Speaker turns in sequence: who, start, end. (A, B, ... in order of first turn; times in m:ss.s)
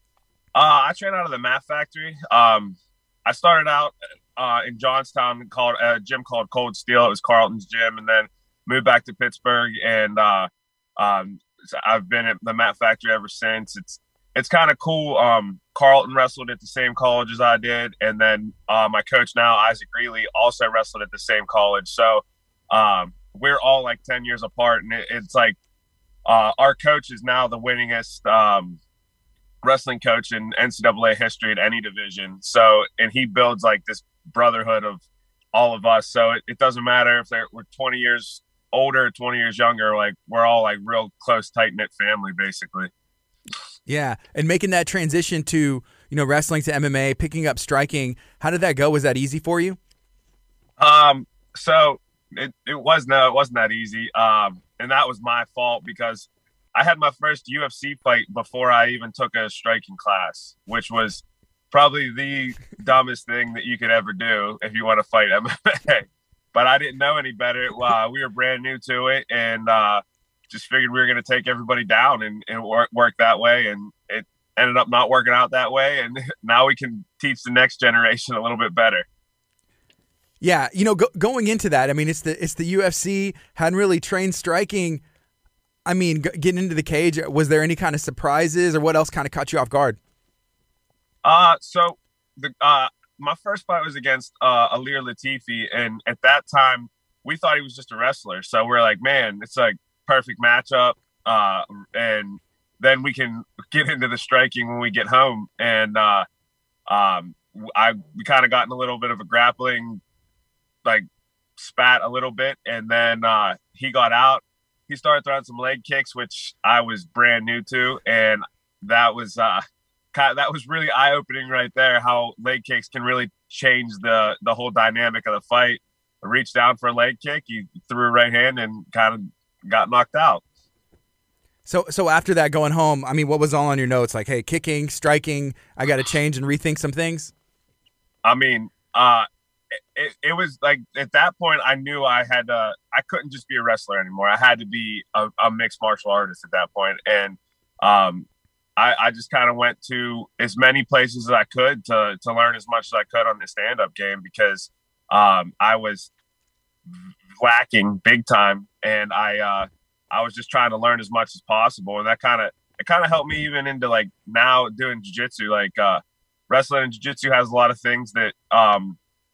0:00.6-0:25.6 A
0:26.3-0:28.8 A
0:29.6-0:35.0 A
0:35.5-0:42.9 A
0:43.9-0:49.8 B
0:50.8-1:19.0 A
1:20.4-1:25.0 B
1:25.9-1:30.0 B
1:31.2-1:46.2 A
1:46.9-1:50.0 A
1:51.6-1:59.6 A
2:00.1-2:10.4 A
2:11.7-2:17.3 B
2:18.2-2:19.3 A
2:20.0-2:36.1 A
2:36.9-2:49.0 A